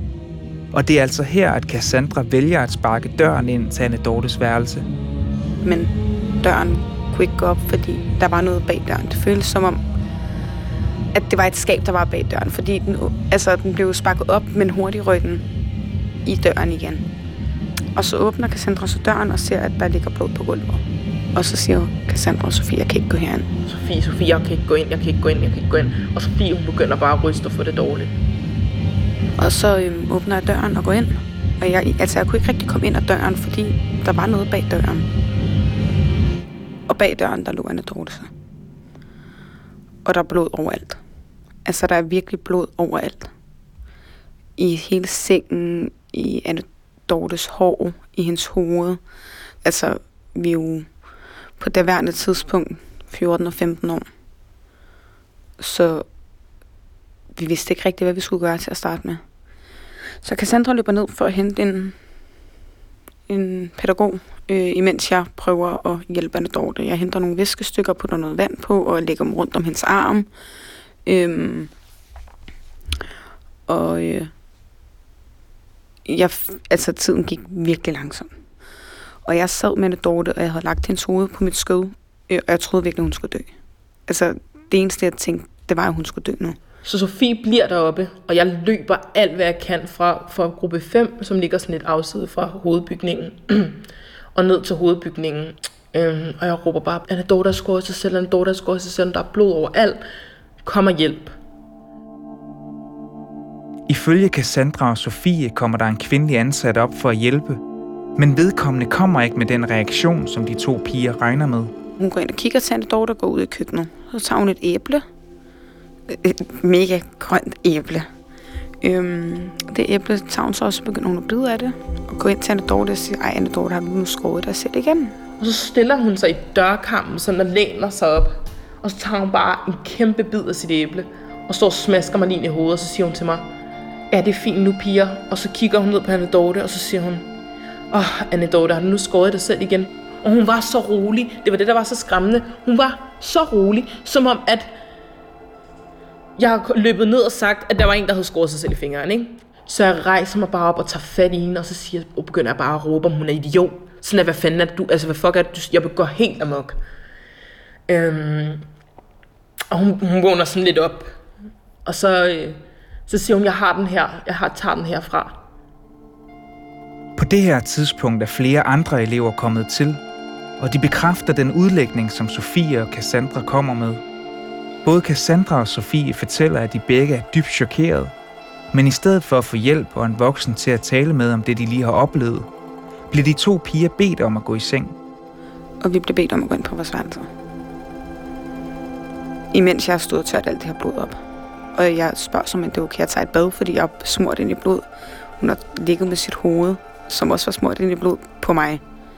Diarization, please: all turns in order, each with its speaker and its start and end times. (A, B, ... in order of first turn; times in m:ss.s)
0:00.7-0:04.9 A
0:05.6-0:09.8 B
0:11.1-0:15.4 B
0:16.2-0:17.0 B
0:17.9-0:20.8 B
0:21.3-0:23.5 B
0:23.6-0:28.1 C
0:29.4-0:35.0 B
0:36.9-0:38.3 B
0:40.0-0:41.0 B
0:41.6-0:43.3 B
0:44.6-0:49.0 B
0:49.6-0:50.9 B
0:51.6-0:54.1 B
0:55.6-0:56.0 B
0:57.3-0:59.2 B
1:00.2-1:02.0 B
1:03.3-1:10.3 B
1:11.0-1:11.7 B
1:13.7-1:14.3 B
1:16.0-1:18.3 B
1:19.2-1:23.5 B
1:24.1-1:26.6 B
1:26.8-1:33.8 C
1:34.3-1:40.0 C
1:40.6-1:41.3 C
1:43.9-1:47.6 A
1:48.2-1:51.7 A
1:52.0-1:55.0 B
1:56.1-1:58.1 B
1:58.8-2:05.2 B
2:05.4-2:13.5 C
2:14.1-2:17.3 C
2:17.9-2:24.7 C
2:26.4-2:36.8 C
2:37.9-2:38.6 C
2:39.7-2:41.2 C
2:41.8-2:45.4 C
2:47.2-2:50.0 A
2:50.6-2:54.0 A
2:54.8-2:58.1 A
2:58.7-3:02.5 A
3:03.1-3:05.0 A
3:05.8-3:07.3 B
3:09.5-3:11.2 B
3:11.7-3:14.9 B
3:15.4-3:18.8 B